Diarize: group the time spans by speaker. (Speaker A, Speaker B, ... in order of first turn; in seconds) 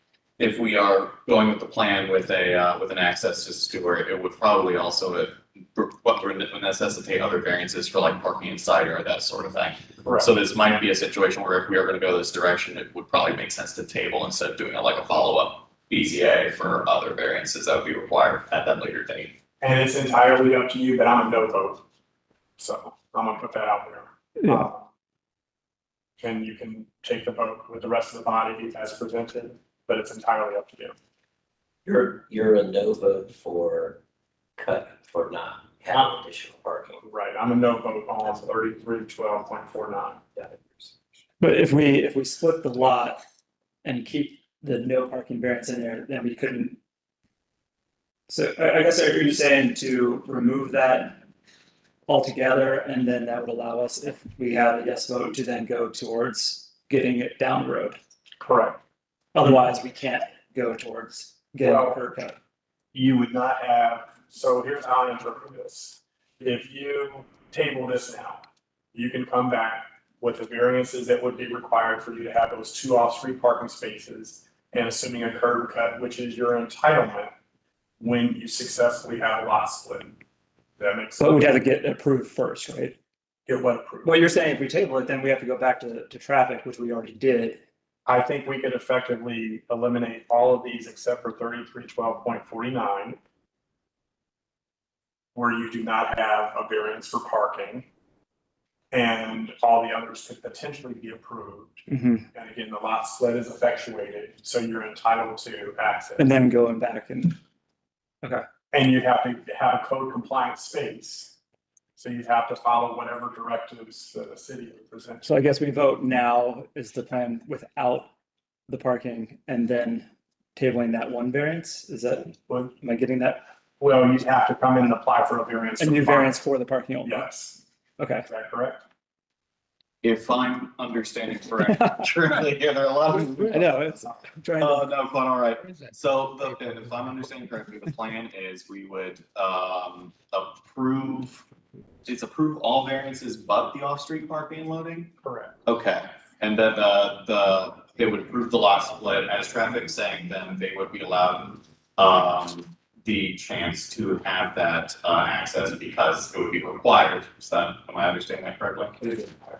Speaker A: 0.4-19.3, 130.0-141.4, 142.0-145.1, 145.7-159.3
Speaker B: 10.0-10.3, 19.6-21.8, 22.6-24.9, 26.2-30.9, 37.0-40.2, 58.4-58.8, 61.6-62.0, 62.9-68.4, 68.9-77.3, 78.0-80.1, 80.8-81.6, 83.5-84.2, 88.0-93.2, 95.3-97.8, 98.9-106.3, 108.7-111.3, 112.0-115.3, 122.5-122.8, 123.8-126.4, 127.0-127.6, 128.2-128.8, 145.2-145.5
Speaker C: 24.4-24.7, 41.4-43.2, 43.8-46.8, 48.3-51.2, 52.1-58.0, 59.3-62.4, 81.2-83.0, 84.0-87.6, 101.9-102.2, 106.2-107.4, 115.2-118.1, 118.7-123.4, 125.8-127.2, 128.0-128.3, 131.7-132.1, 133.5-134.9
Speaker D: 31.8-34.0, 34.6-37.0